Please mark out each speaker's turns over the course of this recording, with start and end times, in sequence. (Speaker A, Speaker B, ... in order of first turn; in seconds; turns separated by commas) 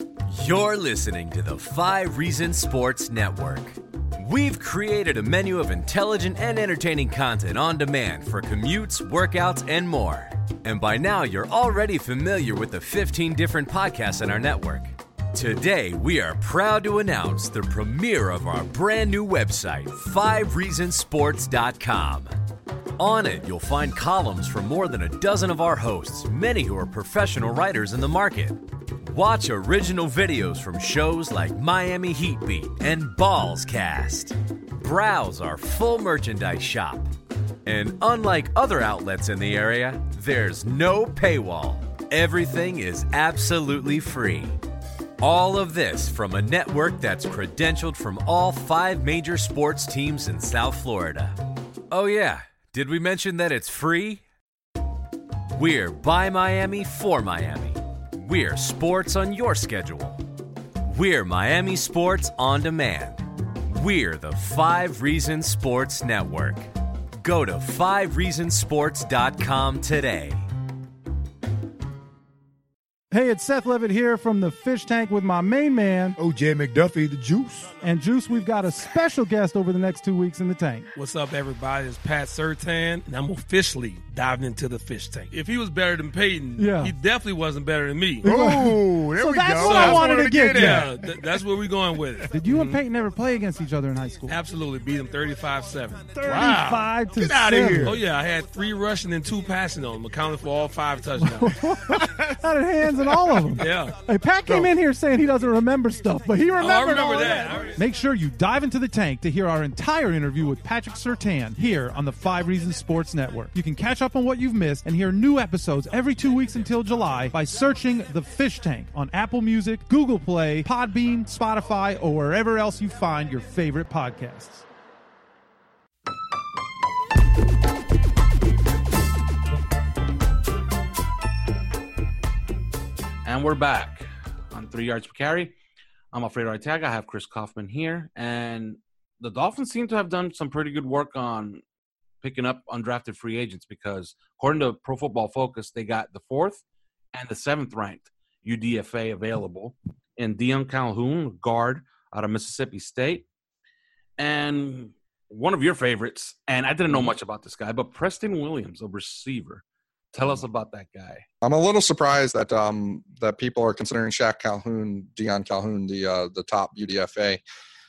Speaker A: 0.3-22.3, Speaker A: 23.0-37.1, Speaker A: 37.6-44.5, Speaker A: 45.2-51.4, Speaker A: 51.9-54.2, Speaker A: 55.5-60.2, Speaker A: 60.8-66.7, Speaker A: 67.2-70.4, Speaker B: 73.1-76.1, Speaker C: 76.1-77.8, Speaker B: 77.8-80.9, Speaker D: 80.9-88.3, Speaker B: 86.6-86.9, Speaker C: 88.2-91.2, Speaker B: 88.2-90.9, Speaker D: 89.6-92.8, Speaker B: 92.3-94.3, Speaker D: 94.3-101.9, Speaker B: 96.2-98.0, Speaker C: 97.6-97.9, Speaker B: 101.2-124.6, Speaker D: 103.0-104.7, Speaker D: 106.6-107.8, Speaker E: 133.2-135.5, Speaker E: 136.1-141.6, Speaker E: 142.2-146.6, Speaker E: 147.1-153.3, Speaker E: 154.2-161.2, Speaker F: 161.4-167.4